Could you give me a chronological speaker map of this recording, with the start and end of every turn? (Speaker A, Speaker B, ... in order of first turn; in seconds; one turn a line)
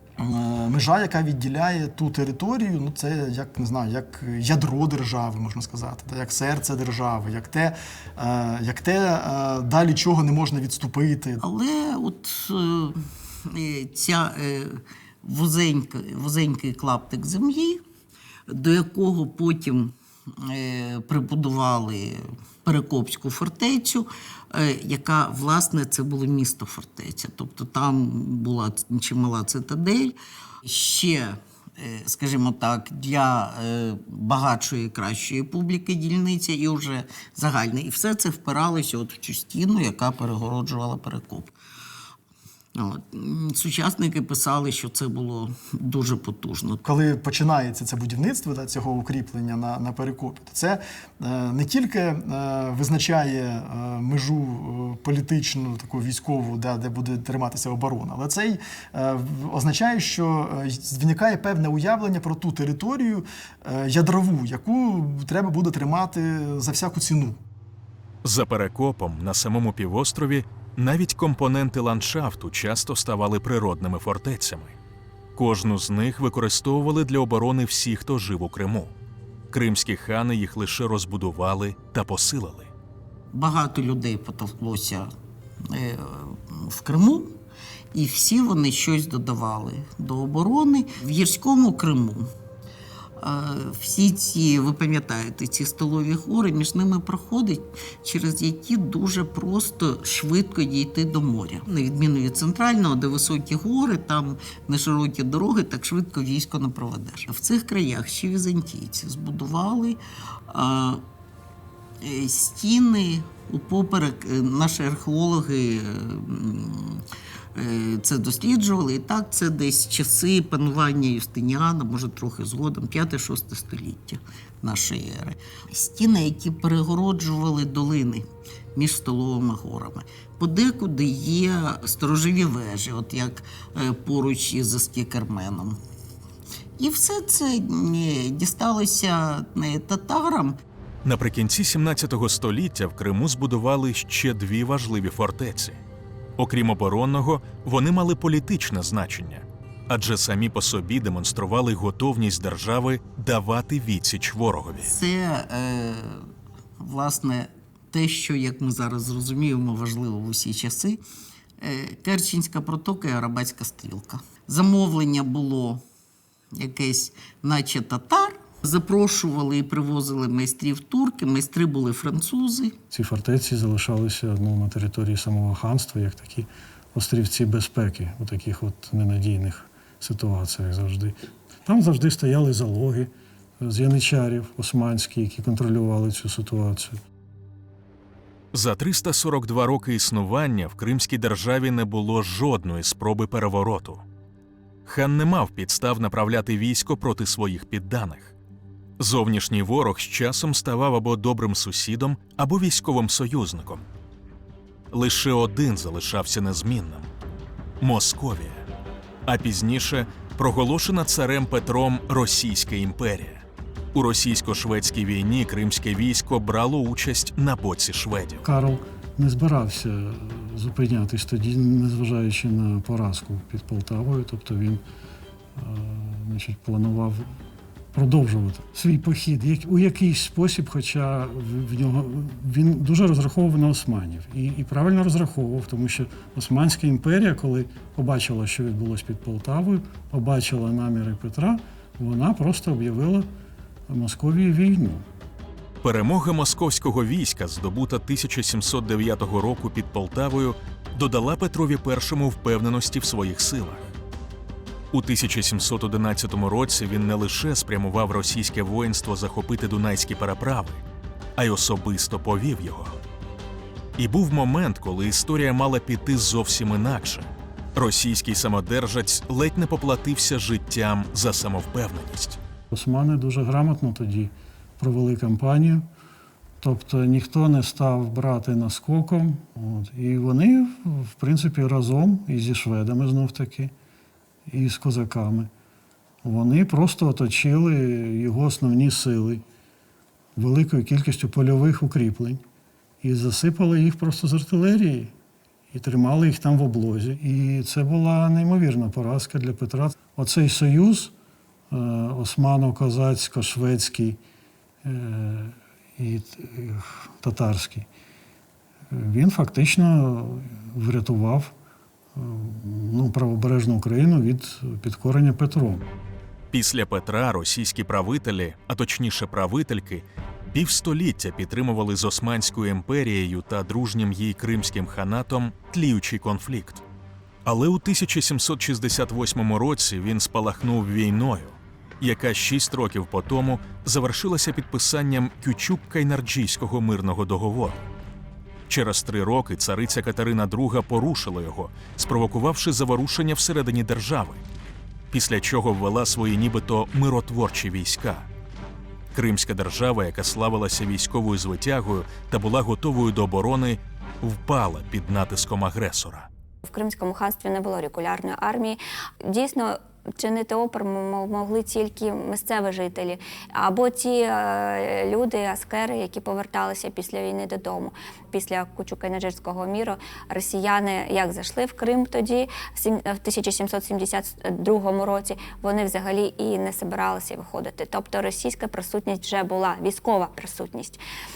Speaker A: 0.2-11.4
Speaker B: 11.4-17.8
Speaker B: 18.5-41.5
Speaker B: 42.7-46.8
Speaker A: 46.8-67.4
Speaker C: 68.2-74.8
Speaker C: 75.4-78.9
Speaker C: 79.5-82.7
Speaker B: 83.3-85.1
Speaker B: 85.7-87.4
Speaker B: 87.9-92.3
Speaker B: 93.2-111.0
Speaker B: 112.0-135.8
Speaker B: 136.8-140.6
Speaker C: 141.0-145.8
Speaker C: 146.4-154.9
Speaker B: 154.8-156.3
Speaker B: 156.8-161.0
Speaker B: 161.6-165.8
Speaker B: 166.5-172.8
Speaker D: 172.9-187.0
Speaker C: 188.5-194.0
Speaker C: 194.9-198.3
Speaker C: 199.0-203.9
Speaker C: 204.9-207.1
Speaker C: 207.8-208.6
Speaker C: 209.3-218.4
Speaker D: 218.4-224.8
Speaker D: 225.6-227.3
Speaker D: 227.9-243.3
Speaker D: 243.9-245.0
Speaker C: 245.8-253.9
Speaker C: 254.9-260.8
Speaker C: 261.4-263.0
Speaker C: 264.0-272.4
Speaker D: 272.7-275.9
Speaker D: 276.6-283.7
Speaker D: 284.5-285.5
Speaker D: 286.2-289.4
Speaker D: 290.4-292.4
Speaker D: 293.0-295.1
Speaker D: 295.7-301.1
Speaker D: 301.7-304.2
Speaker D: 304.8-307.9
Speaker D: 308.9-311.5
Speaker D: 312.1-315.9
Speaker C: 316.5-326.8
Speaker C: 327.4-337.9
Speaker C: 338.7-344.4
Speaker C: 345.1-348.2
Speaker C: 349.1-356.3
Speaker E: 356.6-381.0